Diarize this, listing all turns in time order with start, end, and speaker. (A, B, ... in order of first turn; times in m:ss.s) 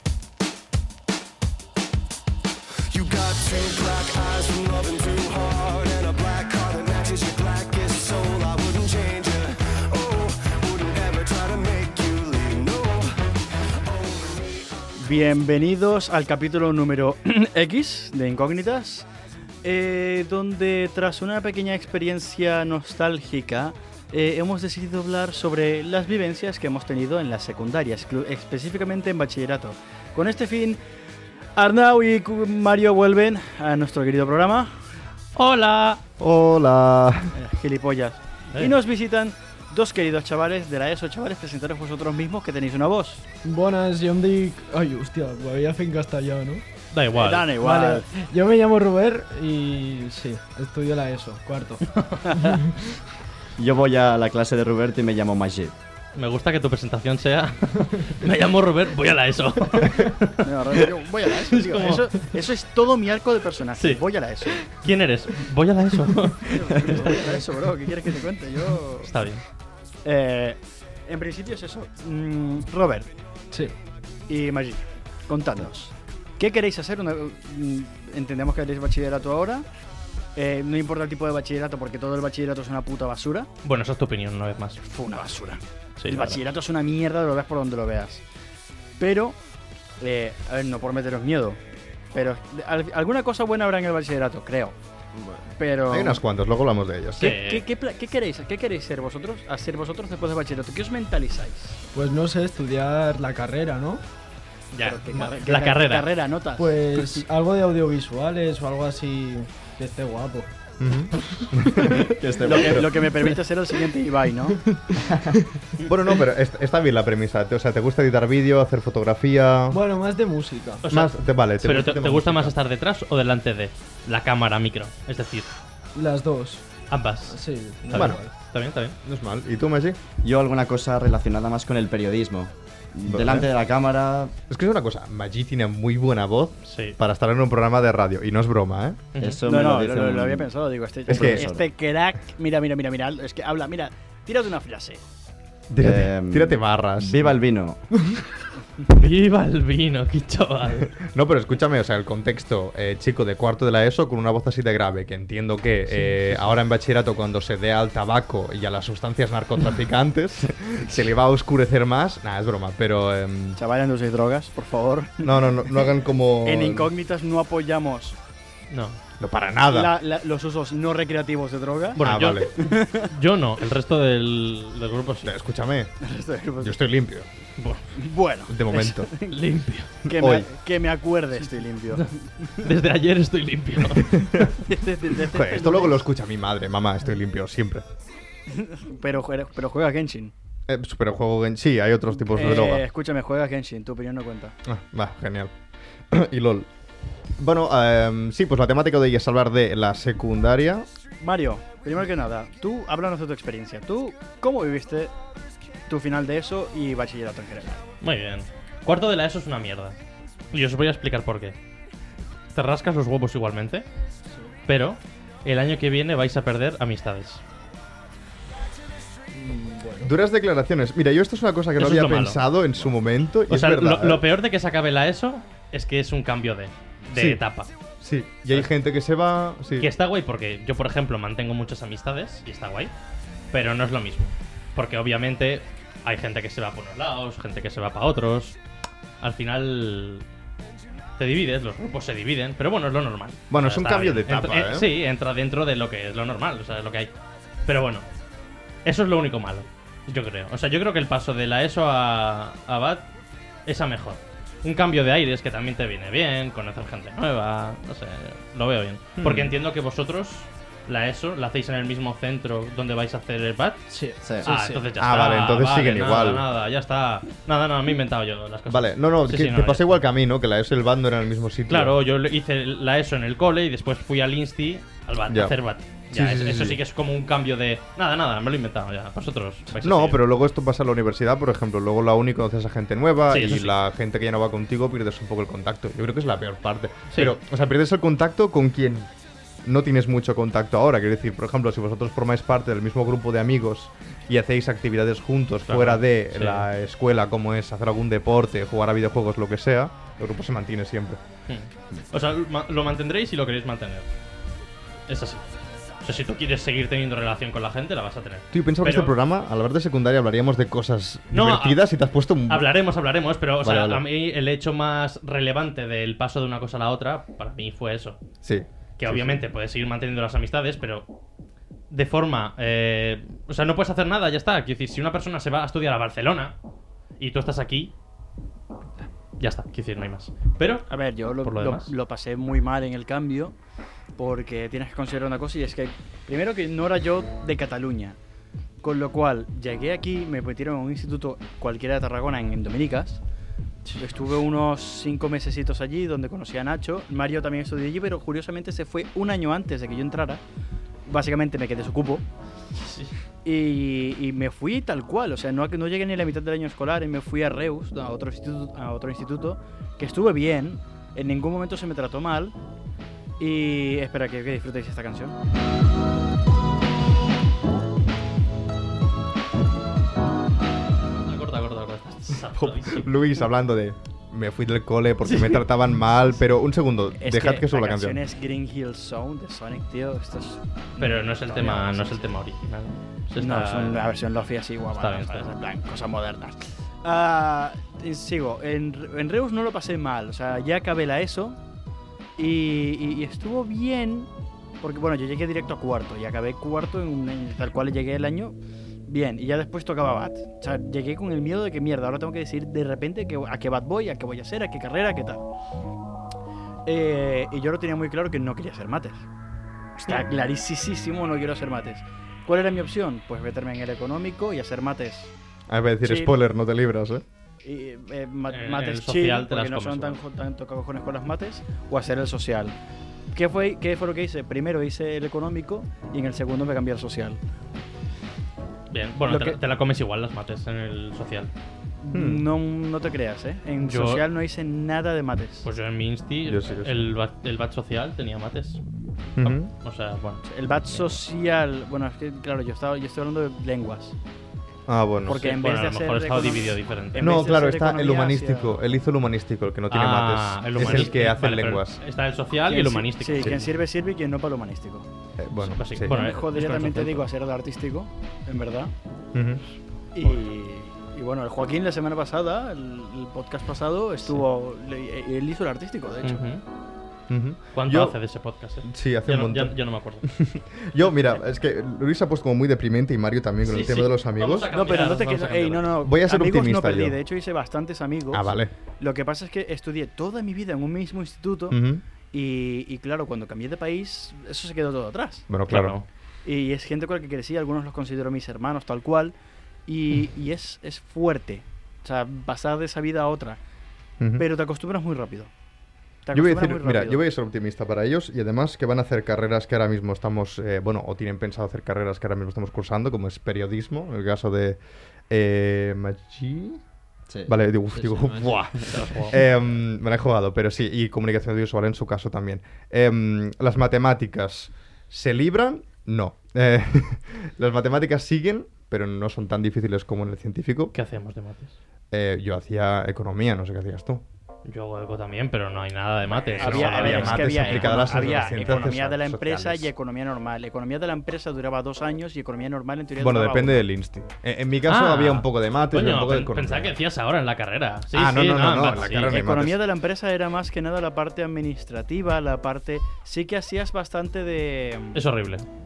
0:02.9-0:13.2 A
0:13.8-0:14.9 A
0:15.0-0:19.1 B
0:19.6-0:30.8 B
0:31.6-0:34.7 B
0:35.4-0:36.0 C
0:36.2-0:37.4 D
0:37.3-0:43.2 B
0:43.4-0:46.6 E
0:46.9-0:47.6 C
0:47.1-0:48.1 B
0:47.6-0:51.8 E
0:52.4-0:52.9 E
0:53.6-0:55.7 F
0:56.2-1:00.9 C
1:00.4-1:04.7 B
1:01.5-1:02.3 C
1:03.8-1:04.0 C
1:04.6-1:07.2 C
1:06.4-1:09.1 B
1:09.1-1:09.4 C
1:10.0-1:13.1 B
1:14.3-1:19.7 B
1:20.4-1:23.5 B
1:23.6-1:24.8 C
1:24.9-1:28.2 B
1:26.0-1:26.4 C
1:29.0-1:29.4 B
1:30.0-1:31.6 B
1:32.1-1:34.8 B
1:35.2-1:35.5 E
1:35.6-1:36.2 B
1:35.9-1:37.4 D
1:37.2-1:37.7 C
1:37.2-1:41.8 B
1:41.9-1:44.0 E
1:44.7-1:46.1 C
1:44.8-1:47.2 B
1:46.6-1:50.5 E
1:50.8-1:52.1 D
1:51.4-1:52.1 E
1:52.0-1:52.9 F
1:52.4-1:54.6 B
1:54.6-1:55.4 E
1:55.1-1:55.4 F
1:55.9-1:59.8 D
1:59.7-2:00.8 E
2:00.8-2:05.5 C
2:00.9-2:02.5 D
2:06.0-2:06.6 E
2:06.9-2:09.0 C
2:07.3-2:08.3 E
2:07.9-2:08.2 D
2:09.0-2:10.0 D
2:10.2-2:14.3 F
2:13.0-2:13.5 D
2:14.5-2:19.1 D
2:16.7-2:17.0 C
2:19.2-2:19.4 C
2:19.2-2:20.5 F
2:19.5-2:25.0 B
2:21.1-2:21.4 D
2:21.1-2:21.7 F
2:25.7-2:27.4 D
2:25.8-2:27.8 F
2:28.9-2:30.9 C
2:30.8-2:43.6 D
2:43.6-2:45.5 B
2:45.2-2:46.9 D
2:46.4-2:48.2 B
2:48.7-2:49.0 C
2:49.2-2:49.9 D
2:49.7-2:53.1 B
2:52.0-2:55.3 C
2:52.0-2:52.5 D
2:55.2-2:55.9 D
2:56.0-2:56.8 B
2:56.6-2:57.3 D
2:58.0-2:59.4 B
2:58.5-2:59.1 D
2:59.3-3:00.0 C
3:00.0-3:00.5 D
3:00.1-3:02.5 B
3:02.0-3:04.2 C
3:04.0-3:04.6 D
3:04.6-3:06.1 B
3:05.2-3:07.8 D
3:08.5-3:10.3 B
3:10.7-3:12.8 D
3:12.3-3:14.6 B
3:14.6-3:15.5 D
3:16.1-3:16.7 D
3:17.4-3:20.9 D
3:21.2-3:25.1 B
3:25.9-3:27.8 B
3:28.0-3:30.0 C
3:30.5-3:31.6 C
3:32.5-3:33.8 C
3:34.7-3:37.4 C
3:39.3-3:40.1 E
3:40.0-3:44.2 D
3:41.8-3:42.4 C
3:43.5-3:47.7 C
3:47.1-3:47.4 D
3:48.0-3:49.9 D
3:49.8-3:52.9 C
3:53.5-3:58.6 C
3:59.2-4:00.2 C
4:01.2-4:07.1 C
4:03.5-4:04.9 D
4:07.7-4:08.0 C
4:08.8-4:13.1 C
4:13.7-4:23.9 C
4:19.2-4:19.5 D
4:23.9-4:24.8 E
4:24.2-4:24.5 F
4:24.4-4:30.0 C
4:25.0-4:26.4 D
4:28.7-4:31.9 D
4:31.7-4:40.2 C
4:35.3-4:35.6 D
4:36.1-4:36.8 D
4:39.8-4:49.1 D
4:43.3-4:43.8 C
4:49.6-5:01.2 D
4:55.7-4:56.7 C
5:01.5-5:04.1 C
5:05.1-5:05.4 C
5:06.0-5:09.2 C
5:08.5-5:12.7 D
5:11.3-5:11.8 C
5:12.5-5:18.2 C
5:13.6-5:14.0 D
5:18.4-5:19.4 D
5:19.0-5:21.1 C
5:21.9-5:26.5 C
5:27.2-5:27.9 C
5:29.4-5:30.9 C
5:30.9-5:33.6 B
5:31.4-5:31.9 C
5:34.2-5:38.2 B
5:38.8-5:43.2 B
5:44.0-5:50.4 B
5:51.1-5:52.2 B
5:52.8-5:53.1 C
5:53.4-6:02.6 B
6:03.4-6:05.4 B
6:11.2-6:13.1 C
6:12.6-6:18.2 D
6:15.2-6:15.6 C
6:17.2-6:22.3 B
6:21.0-6:24.2 C
6:23.4-6:31.6 B
6:25.0-6:25.5 C
6:32.4-6:34.3 B
6:34.8-6:45.5 B
6:46.9-6:49.2 B
6:50.0-6:55.3 B
6:55.7-6:57.2 D
6:56.0-6:56.3 B
6:57.6-7:02.8 B
6:58.5-7:00.2 C
7:03.3-7:07.4 B
7:08.9-7:11.5 C
7:09.3-7:09.6 B
7:12.0-7:15.7 B
7:12.1-7:12.4 D
7:13.8-7:14.2 C
7:15.6-7:18.8 C
7:16.5-7:17.0 D
7:19.4-7:19.7 D
7:19.4-7:21.2 C
7:20.5-7:24.2 B
7:24.9-7:25.5 D
7:25.3-7:28.8 B
7:25.3-7:27.5 C
7:27.2-7:32.0 D
7:29.9-7:33.7 C
7:32.7-7:35.1 B
7:35.4-7:36.2 D
7:35.7-7:37.3 C
7:36.1-7:38.9 B
7:39.3-7:39.6 D
7:40.1-7:46.4 B
7:46.2-7:46.6 C
7:47.3-7:48.2 D
7:47.8-7:50.3 C
7:48.9-7:54.7 D
7:53.6-7:56.0 C
7:54.7-8:01.8 B
7:56.0-7:57.2 D
7:58.3-7:58.7 D
8:01.7-8:02.0 D
8:02.3-8:05.5 B
8:05.5-8:06.0 D
8:05.7-8:06.0 C
8:06.4-8:09.4 B
8:09.9-8:13.6 B
8:14.2-8:14.4 D
8:14.4-8:15.5 B
8:16.3-8:17.2 B
8:16.3-8:24.8 D
8:25.3-8:26.8 D
8:27.5-8:40.9 D
8:28.0-8:28.6 E
8:28.8-8:29.4 C
8:40.9-8:41.8 C
8:42.1-8:44.2 D
8:44.7-8:48.5 C
8:46.3-8:53.8 B
8:46.6-8:49.9 D
8:53.2-8:57.0 D
8:54.9-8:59.4 C
8:58.1-8:59.8 D
8:59.2-9:05.2 B
9:05.1-9:05.7 C